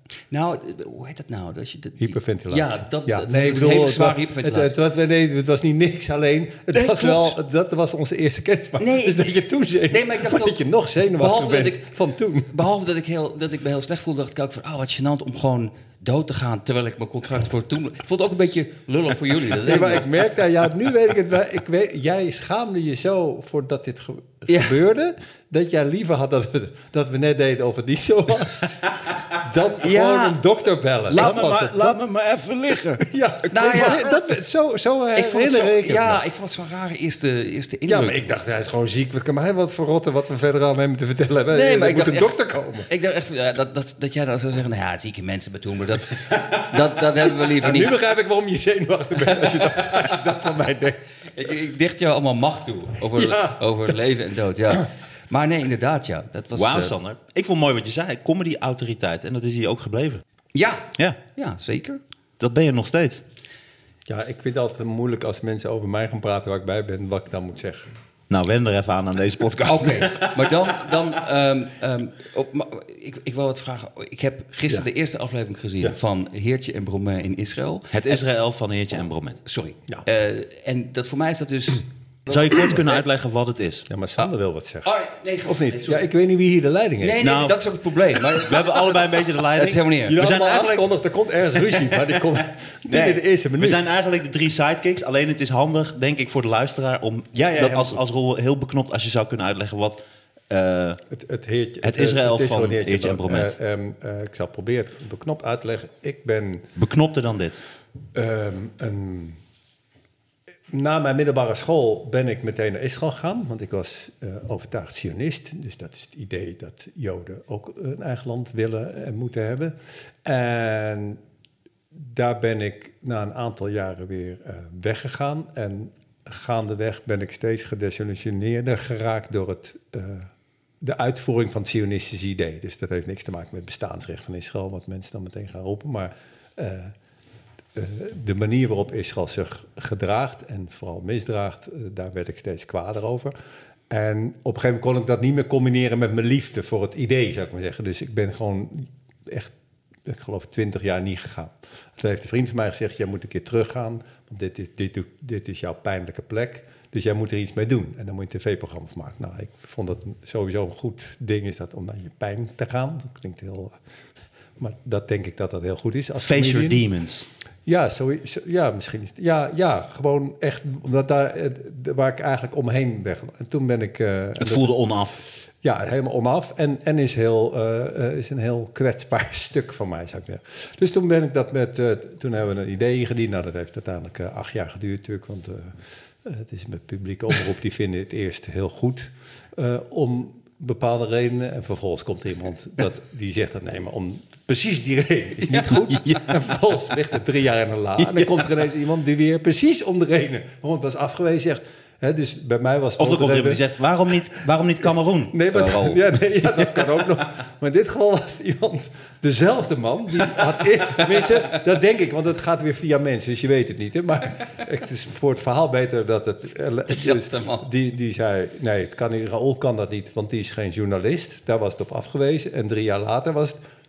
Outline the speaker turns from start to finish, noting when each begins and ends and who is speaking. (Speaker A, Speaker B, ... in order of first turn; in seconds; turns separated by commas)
Speaker A: 0.3-4.8, Speaker B: 2.0-12.5, Speaker A: 6.7-7.3, Speaker A: 8.8-9.3, Speaker A: 9.9-11.9, Speaker A: 12.5-20.1, Speaker B: 19.6-32.0, Speaker A: 24.5-24.8, Speaker C: 29.8-30.4, Speaker C: 31.1-33.1, Speaker B: 33.0-36.2, Speaker A: 33.5-34.3, Speaker A: 35.1-38.3, Speaker B: 37.9-42.9, Speaker A: 41.5-48.0, Speaker B: 47.2-51.0, Speaker A: 49.2-50.2, Speaker A: 51.3-56.9, Speaker B: 53.1-53.6, Speaker C: 56.5-60.2, Speaker A: 60.5-62.0, Speaker C: 62.4-63.2, Speaker B: 64.1-68.0, Speaker C: 68.3-70.9, Speaker A: 69.6-78.2, Speaker C: 77.9-79.4, Speaker A: 79.4-83.0, Speaker C: 82.3-83.8, Speaker B: 83.9-84.9, Speaker A: 84.8-86.0, Speaker B: 85.4-87.2, Speaker A: 87.0-90.2, Speaker C: 87.2-87.6, Speaker C: 88.3-90.8, Speaker B: 90.1-93.8, Speaker C: 91.6-92.2, Speaker C: 92.9-101.0, Speaker A: 97.3-97.8, Speaker B: 101.1-106.7, Speaker C: 101.8-103.5, Speaker C: 106.8-107.6, Speaker B: 108.1-109.4, Speaker B: 110.7-121.2, Speaker B: 121.9-130.3, Speaker B: 130.8-136.9, Speaker B: 137.7-143.3, Speaker B: 143.9-149.5, Speaker B: 150.1-163.8, Speaker B: 164.6-166.8, Speaker C: 166.2-167.2, Speaker B: 167.7-174.7, Speaker C: 174.4-175.2, Speaker B: 175.6-203.6, Speaker C: 196.0-196.3, Speaker C: 198.0-198.5, Speaker C: 203.0-206.8, Speaker B: 205.3-223.6, Speaker A: 216.9-217.7